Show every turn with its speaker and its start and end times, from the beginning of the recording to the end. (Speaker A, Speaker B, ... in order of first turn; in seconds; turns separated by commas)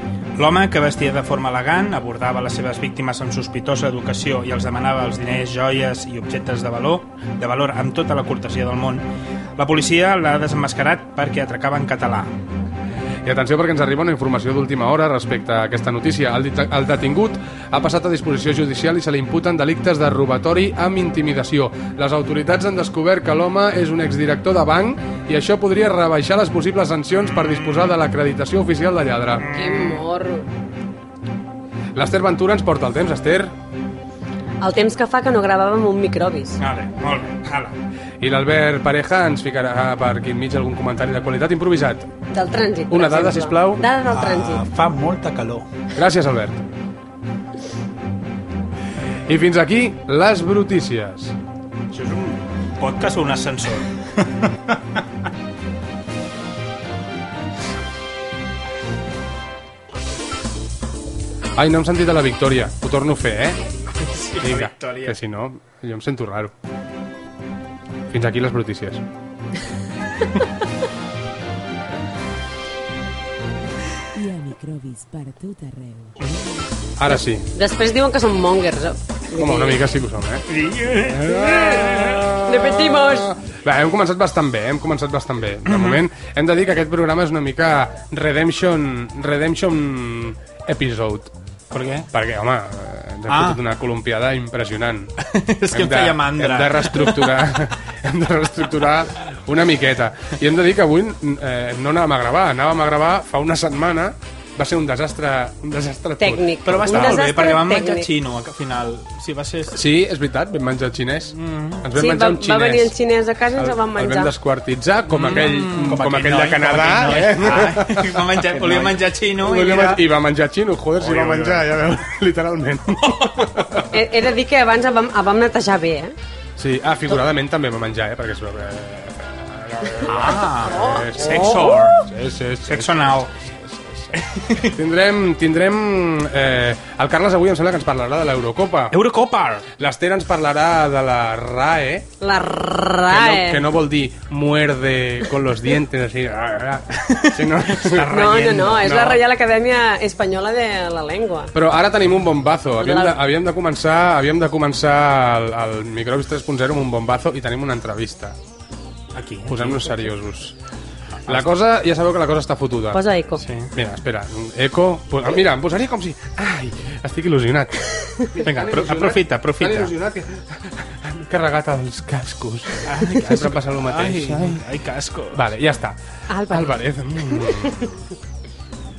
Speaker A: 0.3-9.0, Speaker A: 9.6-12.3, Speaker B: 13.2-29.4, Speaker A: 27.1-28.0, Speaker A: 29.4-30.1, Speaker C: 29.5-30.5, Speaker B: 31.9-33.5, Speaker C: 34.6-36.6, Speaker A: 36.6-37.8, Speaker B: 38.2-42.1, Speaker C: 42.3-44.6, Speaker B: 42.9-43.8, Speaker D: 44.0-45.7, Speaker B: 46.0-46.6, Speaker B: 49.3-51.3, Speaker A: 51.9-53.9, Speaker B: 61.5-63.6, Speaker A: 64.0-65.1, Speaker B: 64.4-66.5, Speaker B: 68.1-69.0, Speaker E: 74.2-76.1, Speaker B: 77.0-77.5, Speaker C: 77.5-79.8, Speaker B: 79.4-80.4, Speaker A: 80.5-82.4, Speaker B: 81.1-91.3, Speaker C: 81.4-81.9, Speaker C: 82.4-83.3, Speaker A: 85.7-86.0, Speaker A: 91.7-92.1, Speaker B: 92.1-95.1, Speaker A: 93.3-93.6, Speaker A: 95.2-97.4, Speaker B: 95.7-107.2, Speaker C: 106.2-108.1, Speaker A: 106.7-109.8, Speaker B: 109.7-112.9, Speaker A: 111.3-111.8, Speaker C: 111.9-114.3, Speaker B: 113.6-118.2, Speaker A: 115.1-116.1, Speaker D: 115.4-117.8, Speaker A: 116.9-120.0, Speaker D: 118.4-119.0, Speaker B: 119.4-123.9, Speaker A: 121.0-121.7, Speaker A: 123.0-123.8, Speaker C: 123.9-126.1, Speaker B: 126.6-138.9, Speaker A: 130.0-132.0, Speaker C: 130.6-131.8, Speaker A: 132.7-133.3, Speaker A: 134.1-134.8, Speaker A: 138.9-139.7, Speaker B: 139.8-142.1, Speaker C: 142.2-143.7, Speaker B: 143.1-149.2, Speaker A: 147.2-148.8, Speaker C: 148.1-151.5, Speaker D: 148.2-148.4, Speaker B: 151.5-158.3, Speaker C: 152.8-153.2, Speaker A: 159.1-160.1, Speaker B: 159.5-160.6, Speaker B: 161.3-163.0, Speaker C: 162.9-163.4, Speaker A: 163.4-163.7, Speaker B: 163.7-174.6, Speaker A: 168.4-169.9, Speaker A: 172.8-175.5, Speaker B: 175.3-176.0, Speaker C: 176.3-177.8, Speaker B: 176.5-177.9